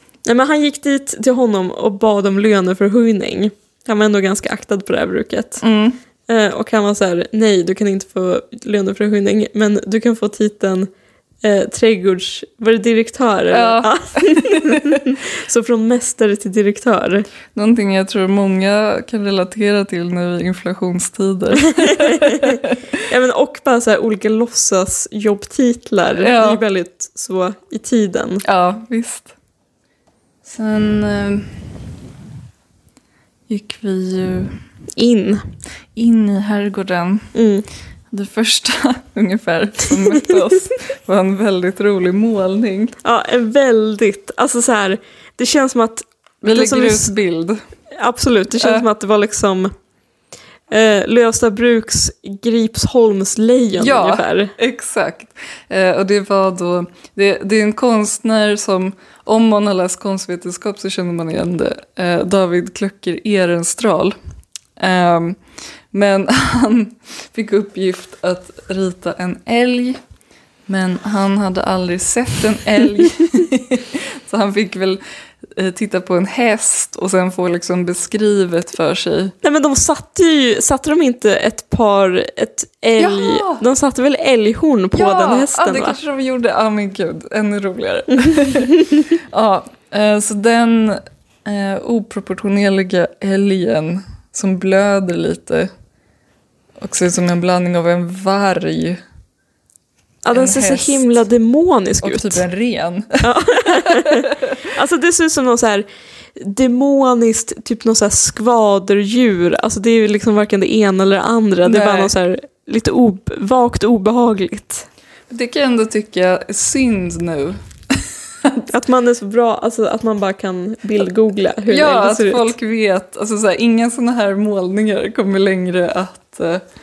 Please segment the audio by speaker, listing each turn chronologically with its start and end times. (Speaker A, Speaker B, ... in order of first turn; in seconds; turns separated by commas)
Speaker A: 0.3-5.6, Speaker B: 5.6-6.0, Speaker A: 6.3-10.9, Speaker A: 11.4-17.3, Speaker B: 13.5-15.0, Speaker B: 17.6-22.7, Speaker A: 21.7-28.4, Speaker B: 26.2-26.6, Speaker B: 28.4-29.3, Speaker B: 30.4-31.7, Speaker B: 33.5-34.5, Speaker A: 35.0-35.4, Speaker B: 36.0-37.3, Speaker A: 37.4-37.6, Speaker B: 38.1-43.0, Speaker A: 43.0-47.1, Speaker B: 46.4-47.6, Speaker A: 48.0-49.7, Speaker B: 48.6-48.9, Speaker A: 50.7-54.5, Speaker B: 53.8-64.2, Speaker B: 64.8-65.4, Speaker B: 65.9-70.0, Speaker B: 70.7-79.3, Speaker A: 79.4-86.0, Speaker B: 83.0-83.6, Speaker B: 84.9-95.7, Speaker B: 96.8-99.0, Speaker A: 100.2-102.4, Speaker B: 100.3-101.2, Speaker B: 102.0-104.5, Speaker A: 103.2-114.9, Speaker B: 111.6-112.1, Speaker B: 115.3-117.6, Speaker A: 118.7-122.5, Speaker B: 121.7-126.6